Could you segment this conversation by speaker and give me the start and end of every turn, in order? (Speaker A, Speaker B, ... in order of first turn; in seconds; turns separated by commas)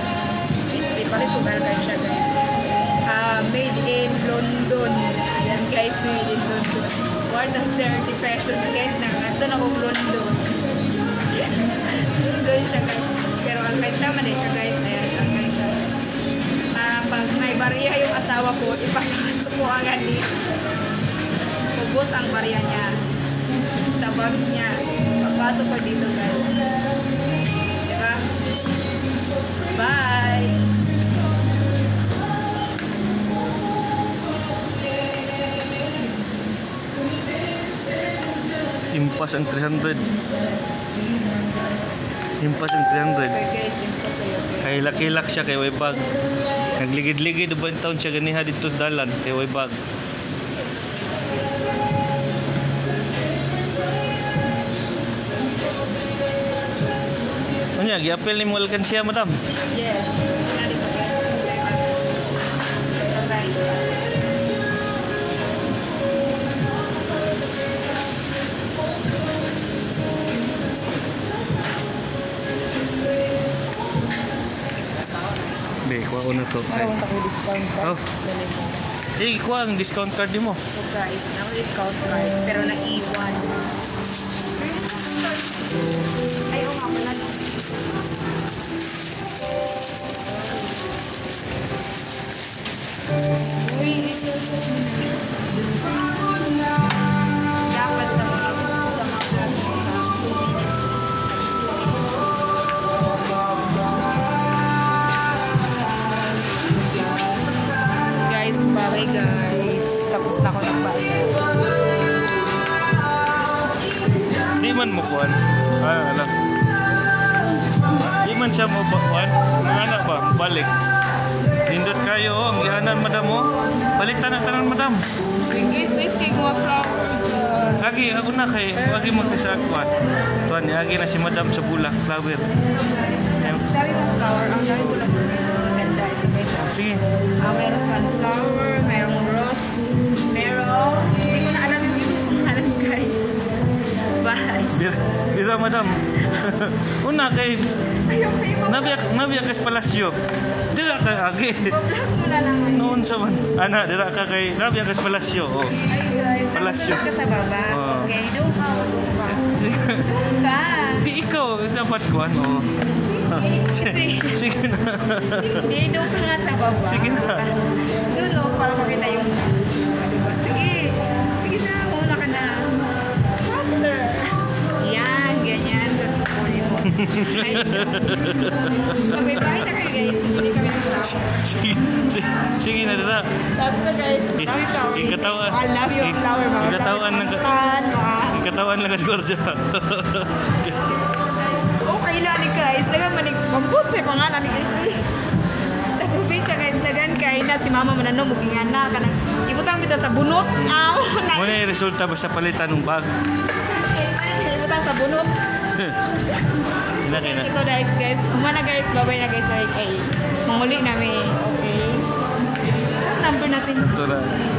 Speaker A: 0.7-2.4, Speaker A: 3.1-10.5, Speaker A: 11.3-15.9, Speaker A: 16.7-20.3, Speaker A: 21.7-22.9, Speaker A: 23.8-26.5, Speaker A: 27.9-28.3, Speaker A: 29.6-30.7, Speaker B: 38.9-40.1, Speaker B: 42.4-43.4, Speaker A: 43.3-45.2, Speaker B: 44.6-46.1, Speaker B: 46.8-49.7, Speaker B: 57.8-59.3, Speaker A: 59.7-62.0, Speaker A: 63.0-64.0, Speaker B: 75.8-77.0, Speaker A: 76.7-78.8, Speaker B: 79.2-80.6, Speaker A: 80.7-83.6, Speaker A: 84.6-85.7, Speaker A: 86.5-87.7, Speaker A: 90.4-90.7, Speaker A: 93.6-95.2, Speaker A: 97.7-100.8, Speaker A: 101.5-102.1, Speaker A: 108.2-111.4, Speaker B: 114.6-116.3, Speaker B: 118.2-120.7, Speaker B: 121.7-125.0, Speaker A: 125.5-127.9, Speaker B: 127.8-129.9, Speaker A: 128.7-129.6, Speaker B: 130.5-132.5, Speaker A: 132.8-136.8, Speaker B: 133.3-133.7, Speaker B: 136.7-137.0, Speaker A: 137.4-144.9, Speaker B: 144.7-147.7, Speaker A: 146.2-146.6, Speaker A: 148.1-149.1, Speaker B: 148.7-150.2, Speaker B: 150.7-151.7, Speaker A: 151.6-153.0, Speaker B: 152.7-155.8, Speaker A: 155.7-161.1, Speaker B: 156.5-157.0, Speaker B: 157.7-158.1, Speaker B: 159.6-160.1, Speaker B: 161.0-162.7, Speaker A: 163.2-164.4, Speaker B: 163.2-165.7, Speaker A: 165.3-172.9, Speaker B: 166.8-167.4, Speaker A: 173.4-181.5, Speaker B: 176.9-179.1, Speaker B: 181.1-183.3, Speaker A: 183.6-188.4, Speaker B: 184.4-187.5, Speaker B: 188.3-191.0, Speaker A: 191.6-195.1, Speaker A: 195.9-201.6, Speaker B: 201.3-203.1, Speaker A: 203.6-205.3, Speaker B: 207.0-207.5, Speaker A: 207.1-212.1, Speaker A: 212.8-214.0, Speaker B: 213.8-214.4